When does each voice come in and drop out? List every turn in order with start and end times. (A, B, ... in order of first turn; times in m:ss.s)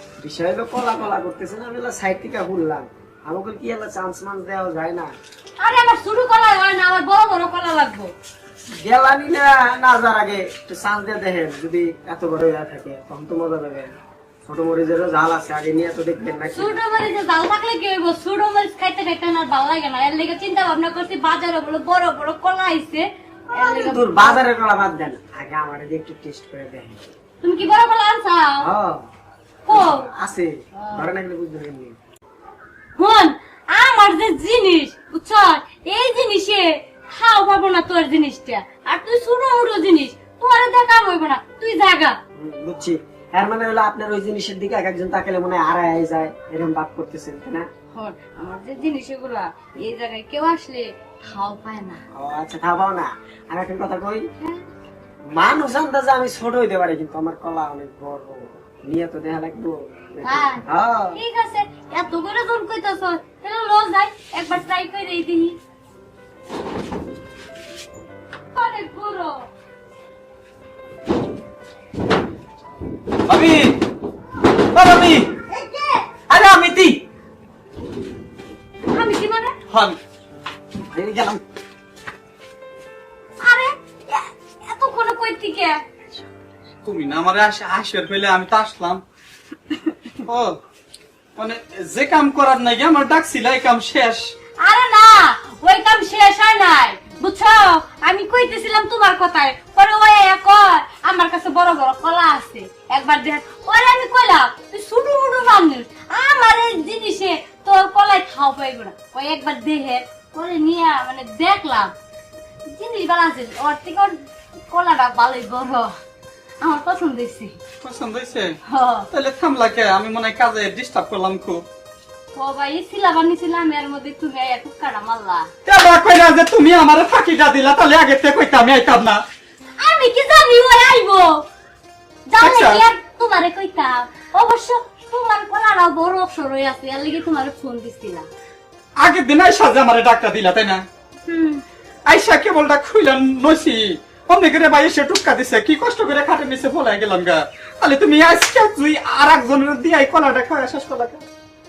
0:00.2-0:05.1 A
0:05.6-0:08.1 B
0:08.7-0:16.8 A
0:16.5-0:24.4 B
0:23.5-0:27.0 A
0:27.4-0:28.7 B
0:28.6-0:29.0 A
0:29.6-0:30.1 B
0:29.7-0:32.0 A
0:30.8-0:31.0 B
0:33.0-0:42.2 B
0:42.4-0:47.7 A
0:47.9-0:52.0 B
0:52.1-0:54.3 A
0:55.2-1:01.2 A
1:00.2-1:05.6 B
1:08.5-1:09.4 B
1:13.2-1:13.8 C
1:14.7-1:15.3 C
1:15.5-1:16.1 B
1:16.3-1:17.0 C
1:18.9-1:19.6 B
1:19.7-1:20.0 C
1:20.9-1:21.4 C
1:23.4-1:25.8 B
1:26.8-1:29.0 C
1:30.2-1:30.6 C
1:31.4-1:34.3 C
1:34.6-1:51.9 B
1:52.7-1:54.2 B
1:54.7-1:55.9 B
1:56.6-1:57.6 B
1:57.8-1:58.6 C
1:58.6-1:59.1 B
1:59.1-2:01.6 C
2:02.3-2:05.5 B
2:05.6-2:09.2 C
2:09.8-2:11.4 B
2:12.3-2:18.3 B
2:12.4-2:12.8 C
2:19.0-2:20.8 C
2:21.3-2:21.6 B
2:22.0-2:31.2 C